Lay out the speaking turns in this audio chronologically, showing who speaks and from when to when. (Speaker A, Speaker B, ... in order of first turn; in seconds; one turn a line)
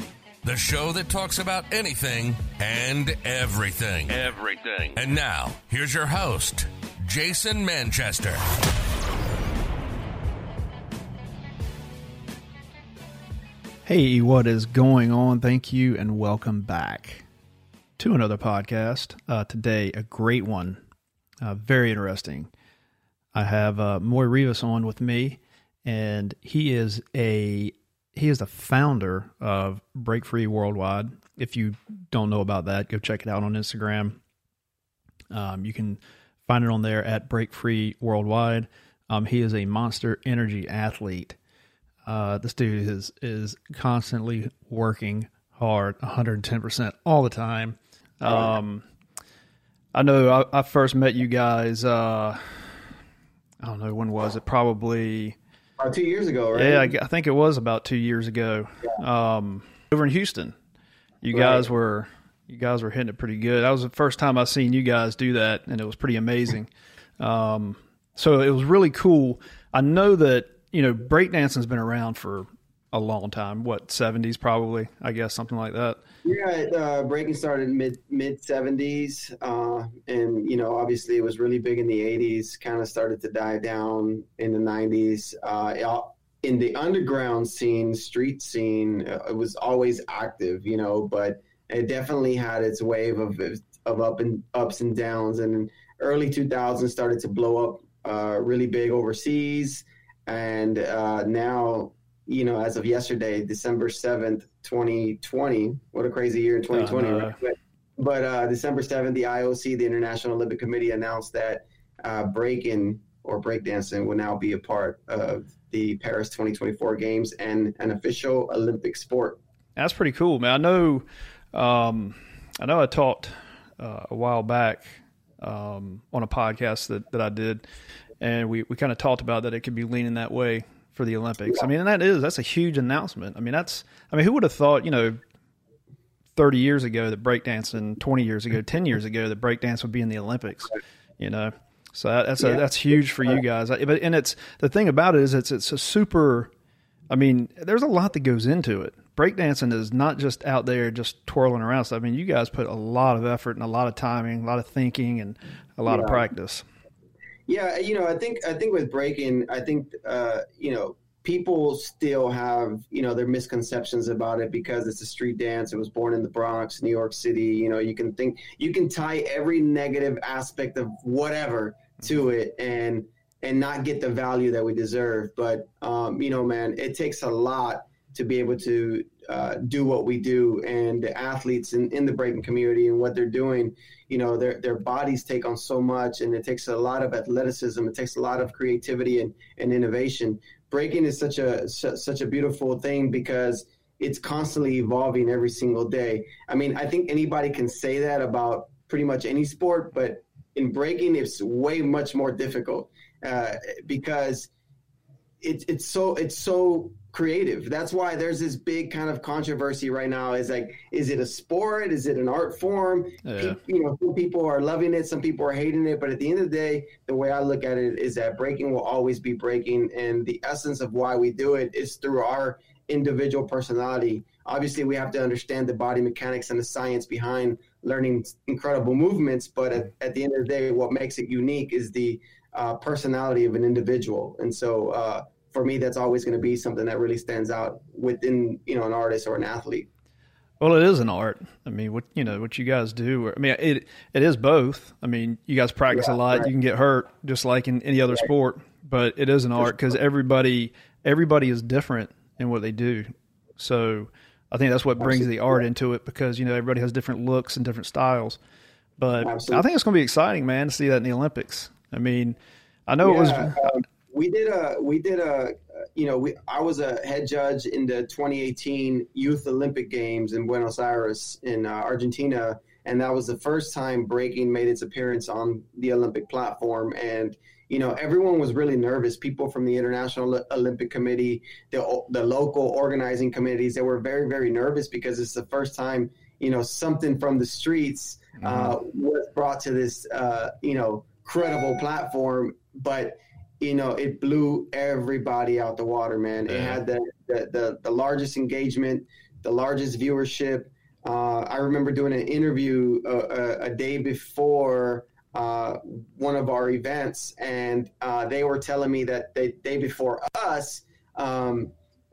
Speaker A: 0.4-8.4
Speaker B: 13.8-17.2
Speaker B: 18.0-20.8
Speaker B: 21.4-22.5
Speaker B: 23.3-34.2
Speaker B: 35.3-41.4
Speaker B: 42.0-48.9
Speaker C: 48.2-48.5
Speaker B: 49.9-52.8
Speaker B: 53.6-55.4
Speaker C: 55.8-56.9
Speaker B: 56.5-60.5
Speaker B: 61.2-76.0
Speaker C: 61.3-61.7
Speaker C: 76.2-119.4
Speaker B: 106.7-107.3
Speaker B: 119.8-127.6
Speaker B: 128.2-135.2
Speaker B: 136.3-146.5
Speaker B: 147.1-156.6
Speaker C: 155.9-156.2
Speaker C: 157.5-204.5
Speaker C: 205.4-239.9
Speaker B: 213.2-213.6
Speaker B: 240.6-258.4
Speaker C: 245.9-246.5
Speaker C: 255.0-255.6
Speaker B: 259.0-262.4
Speaker C: 259.2-259.6
Speaker B: 262.9-263.7
Speaker C: 263.0-311.7
Speaker B: 288.4-288.8
Speaker B: 296.5-296.8